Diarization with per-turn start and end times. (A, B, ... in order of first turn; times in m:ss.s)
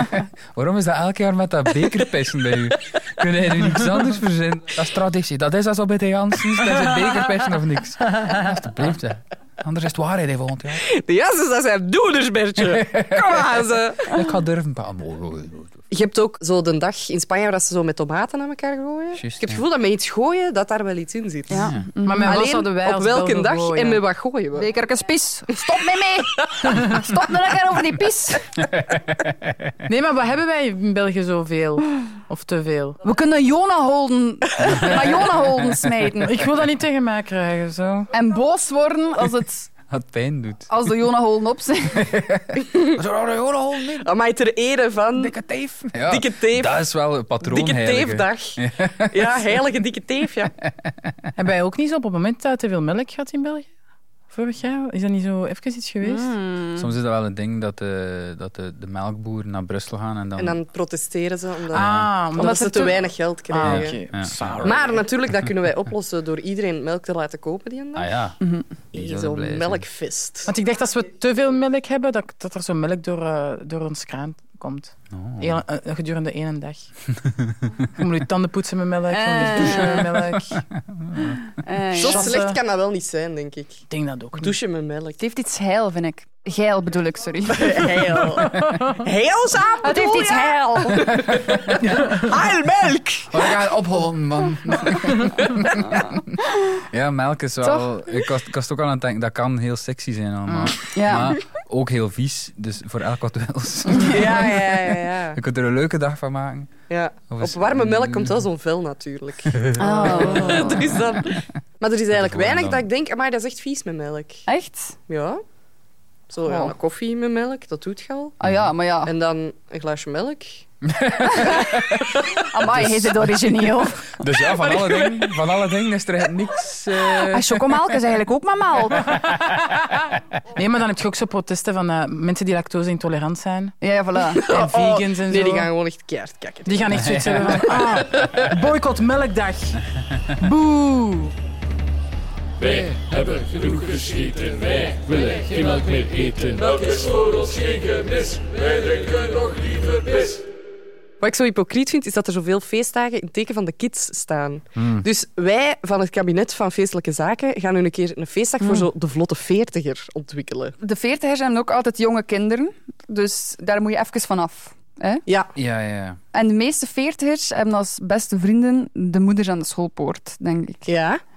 0:00.2-0:10.8 A
0:10.9-0:14.0 B
0:12.7-0:13.4 A
0:14.1-0:15.8 A
0:15.9-0:21.7 B
0:19.2-0:19.6 A
0:21.5-0:22.4 C
0:21.5-0:21.8 A
0:22.0-0:24.0 D
0:22.2-0:24.6 B
0:24.5-0:28.5 C
0:28.8-0:29.7 A
0:29.9-0:33.0 D
0:33.0-0:36.4 C
0:36.2-0:38.1 D
0:38.1-0:39.7 C
0:39.9-0:40.7 A
0:40.7-0:42.1 C
0:42.0-0:44.1 A
0:44.0-0:45.3 B
0:45.1-0:49.2 A
0:46.1-0:46.8 B
0:47.4-0:48.6 B
0:49.1-0:50.5 B
0:50.8-0:51.2 A
0:51.4-0:53.7 D
0:54.3-0:56.4 D
0:56.0-0:56.9 C
0:56.7-1:00.6 A
1:00.4-1:04.0 B
1:01.7-1:05.0 D
1:01.7-1:02.1 A
1:03.6-1:04.6 A
1:04.6-1:08.1 B
1:07.9-1:08.4 A
1:08.9-1:10.5 B
1:08.9-1:09.9 A
1:10.4-1:16.9 D
1:15.1-1:15.6 A
1:17.9-1:20.6 D
1:19.1-1:20.0 C
1:20.9-1:21.4 A
1:21.6-1:22.4 C
1:21.9-1:22.6 D
1:22.0-1:23.8 B
1:23.9-1:24.5 D
1:24.3-1:25.2 B
1:25.2-1:27.9 C
1:27.5-1:33.3 B
1:29.8-1:31.0 C
1:31.3-1:31.8 A
1:33.3-1:36.2 A
1:36.7-1:46.7 A
1:40.5-1:40.7 D
1:40.9-1:41.3 C
1:44.0-1:45.4 B
1:46.9-1:54.4 B
1:47.3-1:48.4 A
1:49.5-1:51.0 A
1:49.8-1:50.8 C
1:50.1-1:50.6 D
1:52.1-1:52.8 A
1:54.5-1:55.0 C
1:55.1-1:55.4 B
1:56.3-1:58.3 B
1:56.4-1:56.7 C
1:58.4-1:59.1 C
1:58.4-1:58.7 A
1:59.0-2:00.6 B
2:00.9-2:02.0 A
2:01.2-2:04.1 C
2:02.7-2:03.3 A
2:04.2-2:08.0 A
2:04.6-2:05.2 B
2:07.2-2:09.2 C
2:10.5-2:13.7 D
2:13.8-2:14.4 C
2:14.3-2:18.4 B
2:14.5-2:15.7 D
2:16.6-2:19.8 D
2:20.4-2:21.3 D
2:23.0-2:29.7 E
2:31.2-2:40.7 B
2:34.8-2:35.0 A
2:38.6-2:38.9 C
2:40.8-2:45.2 C
2:45.2-2:45.5 B
2:45.6-2:46.2 A
2:46.3-2:50.9 C
2:50.9-2:51.2 B